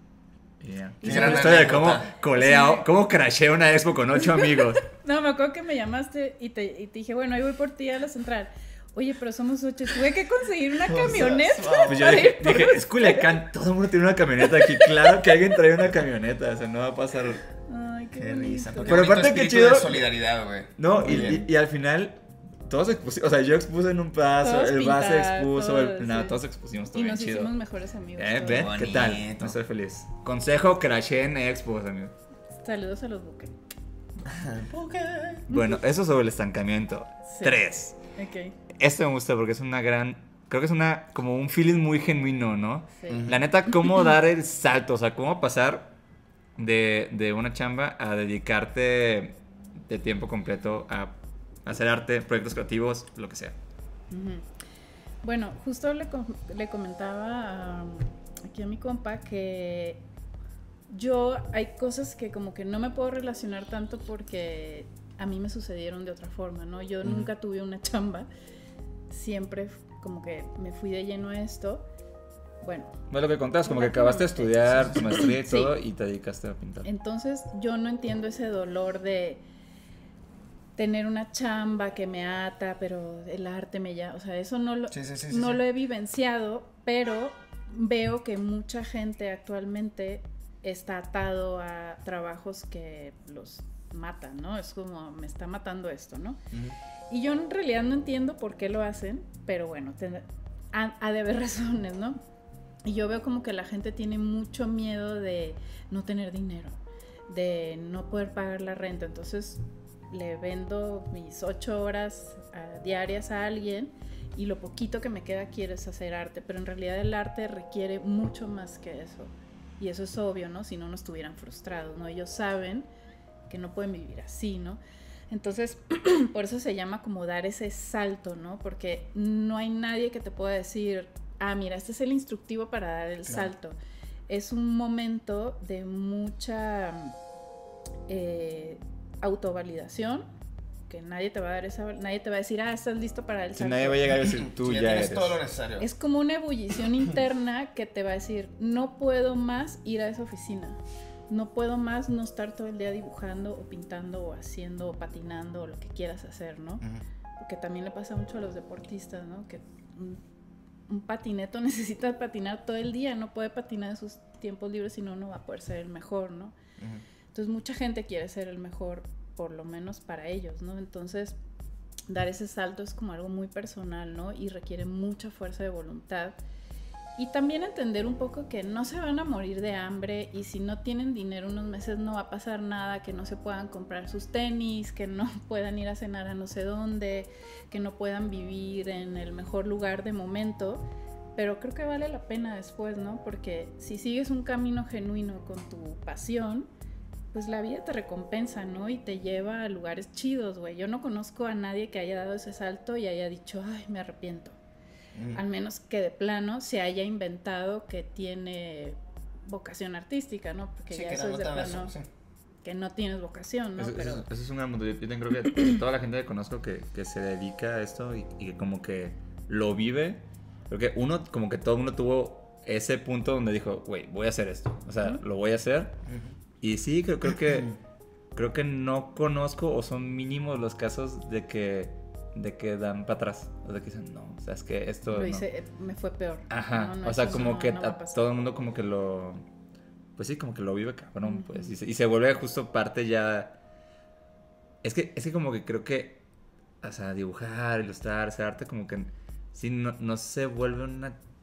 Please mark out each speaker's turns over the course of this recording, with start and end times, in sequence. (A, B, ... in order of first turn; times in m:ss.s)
0:00.6-0:04.8 A
0:01.0-0:01.7 B
0:01.0-0:02.1 C
0:02.4-0:02.9 B
0:04.3-0:13.3 B
0:10.8-0:12.3 C
0:11.8-0:17.4 A
0:14.6-0:14.9 B
0:17.7-0:19.1 B
0:18.1-0:21.4 C
0:18.8-0:20.0 A
0:20.8-0:27.5 A
0:21.0-0:21.4 B
0:24.4-0:26.4 B
0:26.9-0:28.8 B
0:28.2-0:32.1 A
0:28.4-0:29.6 C
0:32.5-0:33.5 B
0:34.3-0:35.4 C
0:35.5-0:38.0 A
0:37.3-0:37.6 B
0:38.1-0:38.5 B
0:38.7-0:45.9 A
0:43.0-0:43.3 B
0:43.1-0:43.4 C
0:46.6-0:53.6 A
0:54.1-0:54.5 B
0:55.2-1:00.0 B
1:00.9-1:08.3 B
1:09.1-1:11.8 B
1:12.6-1:12.9 B
1:13.1-1:16.9 A
1:13.6-1:15.7 B
1:14.7-1:15.0 C
1:16.8-1:19.4 B
1:20.8-1:36.4 B
1:24.9-1:25.6 C
1:37.1-1:42.2 B
1:42.8-2:02.9 B
2:03.5-2:17.1 B
2:13.2-2:13.5 C
2:18.1-2:20.3 B
2:20.9-2:24.2 B
2:23.6-2:25.4 A
2:24.2-2:25.9 C
2:25.8-2:36.8 B
2:37.4-2:40.2 B
2:40.9-2:46.5 B
2:46.8-2:47.0 C
2:47.3-2:51.4 B
2:52.1-2:56.4 B
2:57.2-3:16.7 B
3:17.3-3:24.6 B
3:25.1-3:25.4 C
3:25.3-3:31.9 B
3:30.9-3:32.1 C
3:32.6-3:34.2 B
3:33.8-3:46.0 A
3:46.1-3:46.3 C
3:46.6-3:47.7 A
3:48.3-3:55.4 A
3:55.1-3:58.3 B
3:56.5-3:59.4 A
4:00.2-4:03.5 A
4:01.2-4:01.7 B
4:04.8-4:06.2 A
4:06.8-4:11.2 A